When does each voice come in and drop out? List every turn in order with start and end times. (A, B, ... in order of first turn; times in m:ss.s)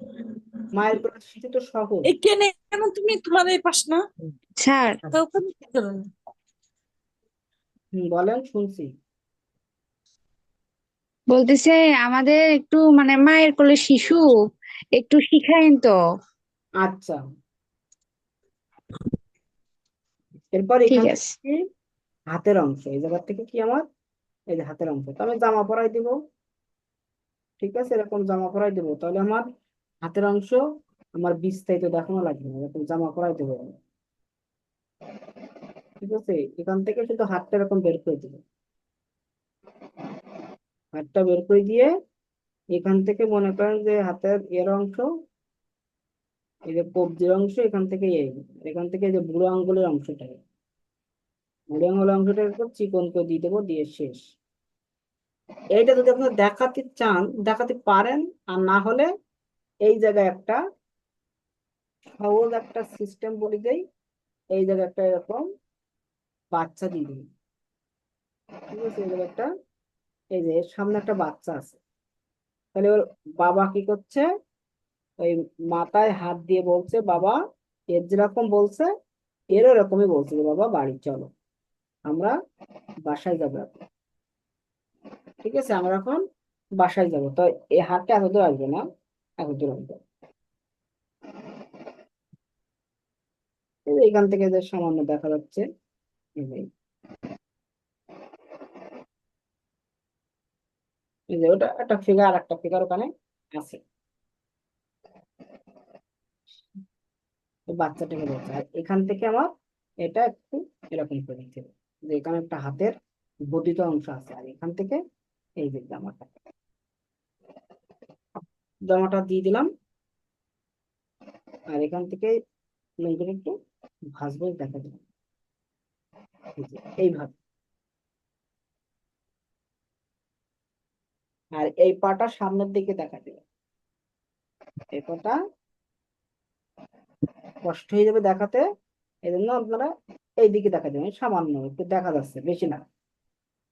0:00.7-0:02.1 A
0:02.1-0:04.0 B
0:04.6-0:05.1 C
0:05.1-0:06.0 B
0:07.9-0:08.9 A
0:11.3-0:14.4 C
0:15.0-0:16.0 C
0:16.8-0:17.2 A
0:20.5-0:21.6 A
0:20.9-0:21.3 C
0:22.3-0:23.8 A
0:24.5-0:26.1 A
0:27.6-0:29.5 A
0:30.0-0:30.6 A
0:31.2-0:33.8 A
0:36.0-0:38.4 A
0:40.9-0:41.9 A
0:42.7-0:45.1 A
0:46.7-0:50.4 A
0:51.7-0:54.2 A
0:55.8-0:59.1 A
0:59.8-1:00.6 A
1:02.2-1:03.8 A
1:04.5-1:05.5 A
1:06.5-1:07.3 A
1:08.7-1:09.5 A
1:10.4-1:11.8 A
1:12.8-1:14.3 A
1:15.2-1:17.4 A
1:17.9-1:18.9 A
1:19.5-1:21.3 A
1:22.1-1:22.4 A
1:23.1-1:23.8 A
1:25.4-1:26.2 A
1:26.8-1:28.8 A
1:29.4-1:30.0 A
1:33.9-1:35.6 A
1:36.4-1:36.7 A
1:41.3-1:43.8 A
1:47.7-1:49.5 A
1:50.0-1:52.9 A
1:53.5-1:55.0 A
1:55.6-1:56.3 A
1:58.9-1:59.7 A
2:01.7-2:02.4 A
2:03.0-2:03.6 A
2:04.1-2:05.0 A
2:06.6-2:07.3 A
2:11.6-2:13.4 A
2:14.9-2:15.4 A
2:17.6-2:18.6 A
2:19.3-2:22.8 A